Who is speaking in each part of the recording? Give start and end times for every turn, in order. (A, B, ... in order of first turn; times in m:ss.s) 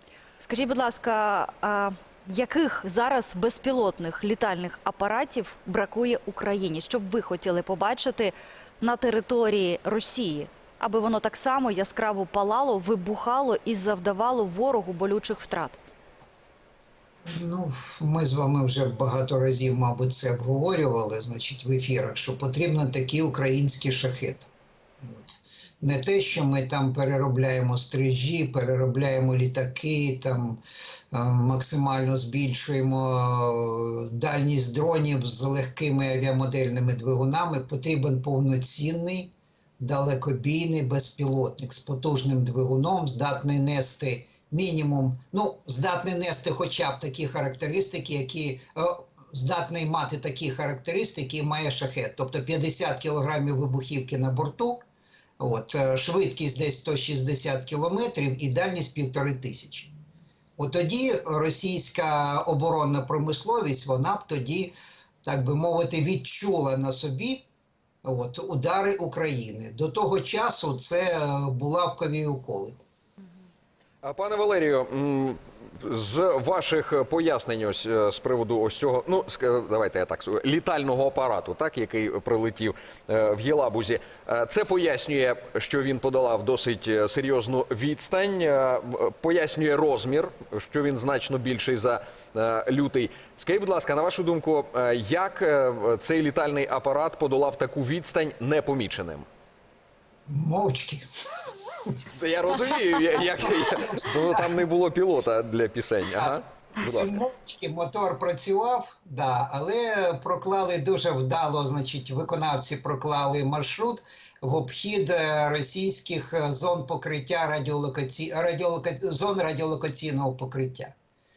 0:00.4-0:15.8 A
0:17.3-0:24.5 B
0:25.0-0:30.6 B
0:31.1-0:54.8 B
0:55.4-0:59.9 B
1:00.6-1:07.4 B
1:08.0-1:12.8 B
1:14.0-1:39.3 C
1:40.3-1:41.0 B
1:42.1-1:47.2 C
1:43.2-1:44.4 B
1:46.2-2:01.0 B